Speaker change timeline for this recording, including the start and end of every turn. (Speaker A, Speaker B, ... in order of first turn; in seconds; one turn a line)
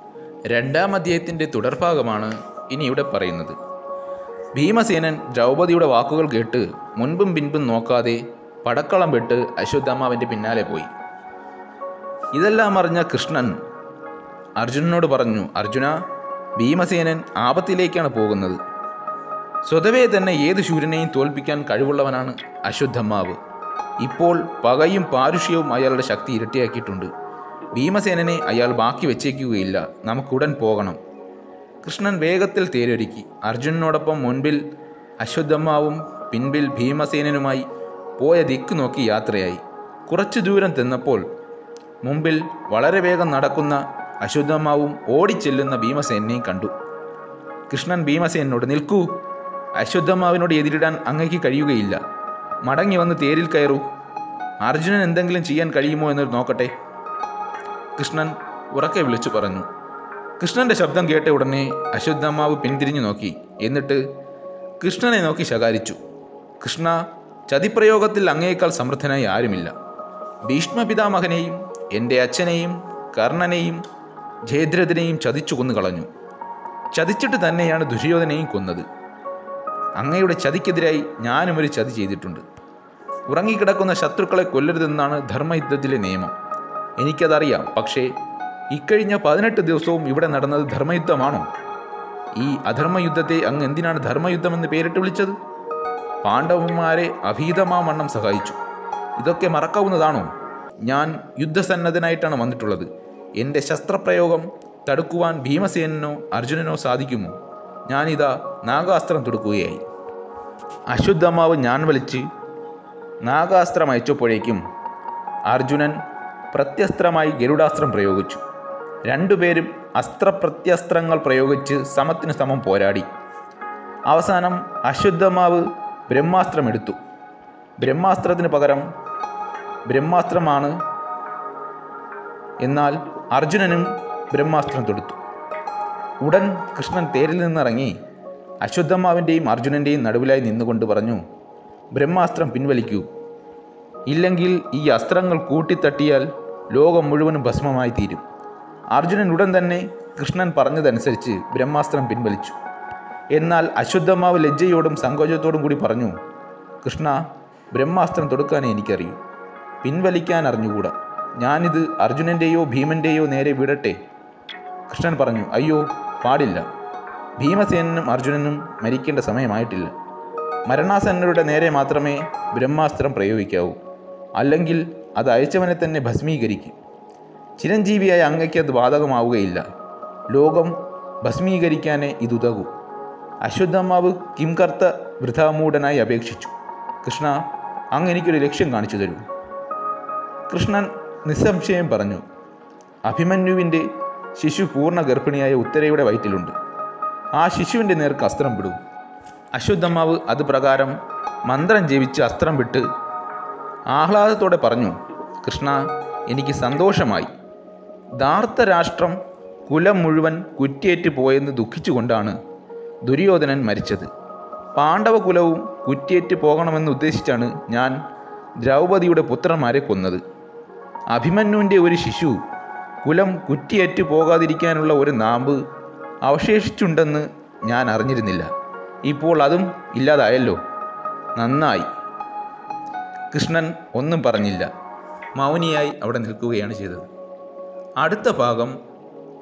Speaker A: 0.5-3.6
Speaker A: 4.5-10.9
Speaker A: 12.3-13.6
Speaker A: 14.6-16.0
Speaker A: 16.6-18.6
Speaker A: 19.7-23.4
Speaker A: 24.0-27.1
Speaker A: 27.7-31.0
Speaker A: 31.8-34.6
Speaker A: 35.2-37.6
Speaker A: 38.2-41.2
Speaker A: 42.0-46.7
Speaker A: 47.7-49.1
Speaker A: 49.8-52.0
Speaker A: 52.6-53.8
Speaker A: 54.6-56.7
Speaker A: 58.0-59.7
Speaker A: 60.4-64.0
Speaker A: 64.8-66.0
Speaker A: 66.6-67.0
Speaker A: 67.5-69.7
Speaker A: 70.5-73.8
Speaker A: 74.5-76.1
Speaker A: 76.9-78.8
Speaker A: 80.0-82.4
Speaker A: 83.3-86.3
Speaker A: 87.0-88.1
Speaker A: 88.7-91.5
Speaker A: 92.4-95.3
Speaker A: 96.2-98.6
Speaker A: 99.2-100.3
Speaker A: 100.8-107.4
Speaker A: 107.9-109.8
Speaker A: 110.9-112.2
Speaker A: 113.2-114.6
Speaker A: 115.5-116.0
Speaker A: 116.5-118.4
Speaker A: 119.1-123.1
Speaker A: 124.1-127.0
Speaker A: 127.8-128.8
Speaker A: 129.9-130.8
Speaker A: 132.6-135.2
Speaker A: 136.2-137.9
Speaker A: 138.6-141.2
Speaker A: 141.9-143.1
Speaker A: 144.1-148.2
Speaker A: 148.9-152.6
Speaker A: 153.3-156.1
Speaker A: 156.8-157.2
Speaker A: 157.7-159.2
Speaker A: 159.8-164.0
Speaker A: 164.9-166.6
Speaker A: 167.4-169.9
Speaker A: 170.7-173.8
Speaker A: 174.4-176.8
Speaker A: 177.6-179.6
Speaker A: 180.3-182.7
Speaker A: 183.4-186.5
Speaker A: 187.0-187.3
Speaker A: 187.9-189.2
Speaker A: 190.5-192.2
Speaker A: 193.1-193.8
Speaker A: 194.4-196.5
Speaker A: 197.4-198.8
Speaker A: 199.6-200.9
Speaker A: 201.5-202.8
Speaker A: 203.9-207.3
Speaker A: 208.2-209.2
Speaker A: 209.7-212.4
Speaker A: 213.1-214.1
Speaker A: 214.8-218.0
Speaker A: 218.6-220.2
Speaker A: 221.1-222.4
Speaker A: 223.0-225.6
Speaker A: 226.2-228.5
Speaker A: 229.1-230.6
Speaker A: 231.4-231.9
Speaker A: 233.3-234.7
Speaker A: 235.4-237.1
Speaker A: 238.0-238.8